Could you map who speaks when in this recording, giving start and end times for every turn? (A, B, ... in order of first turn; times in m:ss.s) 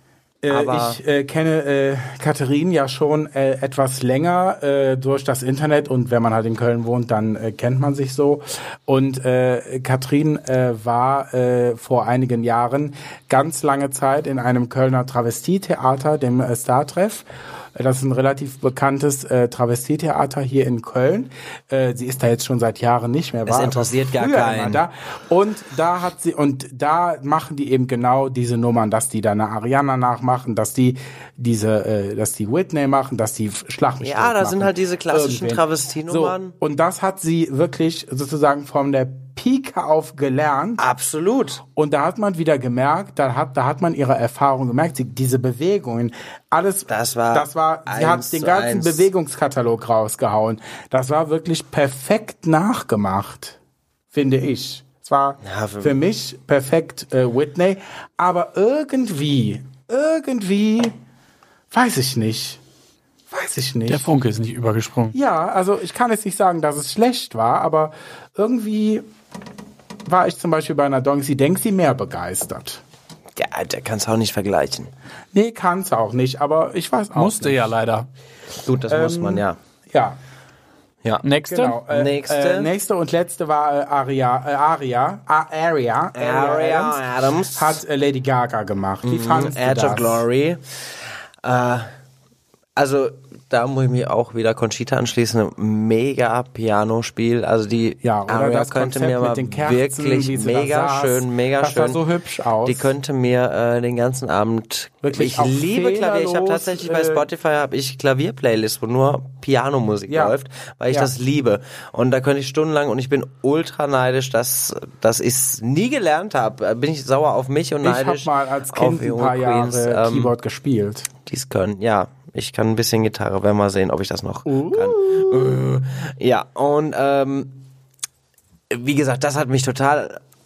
0:00.4-0:40.8 A
0:00.5-0:01.0 B
0:23.4-0:24.8 B
0:34.0-0:36.5 B
0:40.8-0:41.6 B
0:41.6-0:53.6 A
0:46.9-0:49.1 B
0:54.1-1:00.9 A
0:55.4-0:56.0 B
1:01.7-1:02.6 A
1:03.3-1:04.1 A
1:03.9-1:05.2 C
1:05.1-1:09.0 A
1:10.0-1:12.8 A
1:13.4-1:14.9 B
1:15.3-1:17.7 A
1:17.1-1:18.1 C
1:18.6-1:19.6 B
1:18.9-1:20.2 A
1:21.2-1:21.8 C
1:21.4-1:30.2 A
1:21.9-1:22.7 B
1:26.1-1:27.8 B
1:29.0-1:30.6 B
1:31.4-1:31.9 B
1:32.8-1:42.0 B
1:38.0-1:42.9 A
1:42.6-2:00.3 B
1:45.0-1:47.2 A
1:50.1-1:50.4 A
1:57.8-2:01.1 A
2:01.2-2:07.7 B
2:04.4-2:05.6 A
2:08.7-2:10.2 B